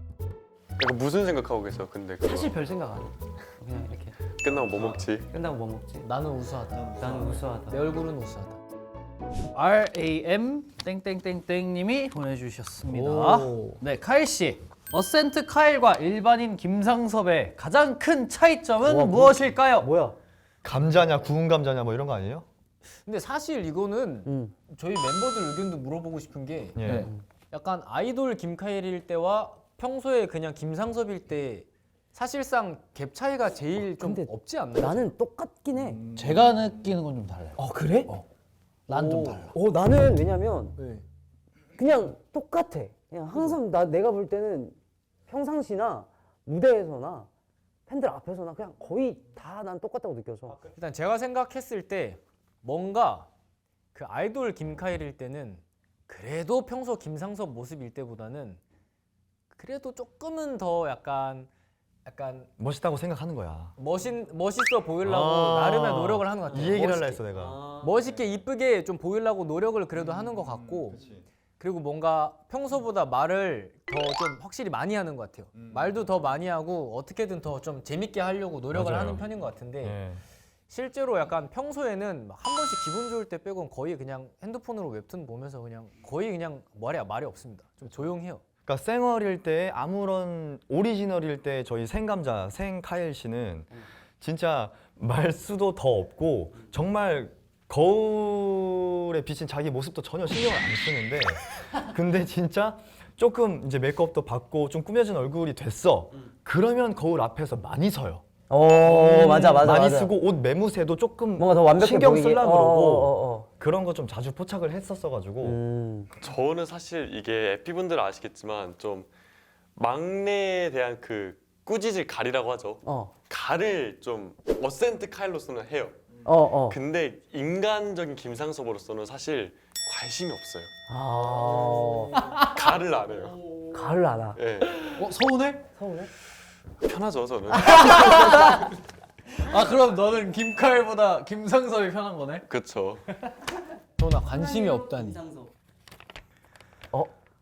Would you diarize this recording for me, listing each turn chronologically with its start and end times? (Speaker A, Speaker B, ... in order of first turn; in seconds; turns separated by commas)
Speaker A: 0.8-2.5, Speaker B: 2.2-4.2, Speaker A: 4.3-5.3, Speaker B: 5.3-6.1, Speaker C: 6.0-8.6, Speaker B: 7.0-7.8, Speaker D: 9.5-19.9, Speaker B: 12.9-13.8, Speaker B: 18.8-20.2, Speaker E: 20.6-22.4, Speaker C: 23.0-35.1, Speaker B: 24.2-24.5, Speaker E: 26.8-27.1, Speaker B: 33.8-36.0, Speaker D: 36.1-37.6, Speaker B: 37.5-38.1, Speaker D: 38.9-39.5, Speaker C: 38.9-39.4, Speaker B: 39.3-40.8, Speaker C: 40.8-41.0, Speaker B: 41.8-44.8, Speaker B: 45.3-47.3, Speaker B: 47.9-50.6, Speaker C: 50.7-53.3, Speaker C: 53.9-58.6, Speaker C: 59.5-61.5, Speaker C: 62.0-62.5, Speaker E: 62.6-63.7, Speaker C: 63.8-71.0, Speaker E: 65.0-67.7, Speaker E: 70.1-71.2, Speaker C: 71.6-80.0, Speaker E: 75.6-75.9, Speaker E: 78.7-79.3, Speaker E: 79.8-80.2, Speaker C: 80.7-88.4, Speaker E: 88.7-108.2, Speaker B: 108.5-110.1, Speaker E: 108.8-115.6, Speaker B: 111.4-113.5, Speaker B: 115.4-116.1, Speaker A: 116.2-119.1, Speaker A: 119.8-126.0, Speaker B: 122.8-123.1, Speaker B: 126.2-126.8, Speaker A: 126.7-130.7, Speaker B: 130.9-132.2, Speaker D: 131.6-132.6, Speaker A: 132.4-133.4, Speaker B: 133.7-134.4, Speaker A: 134.3-135.1, Speaker D: 134.8-135.6, Speaker B: 135.7-136.1, Speaker A: 136.8-138.5, Speaker D: 137.6-138.7, Speaker D: 139.3-142.4, Speaker A: 142.5-143.0, Speaker C: 144.0-145.3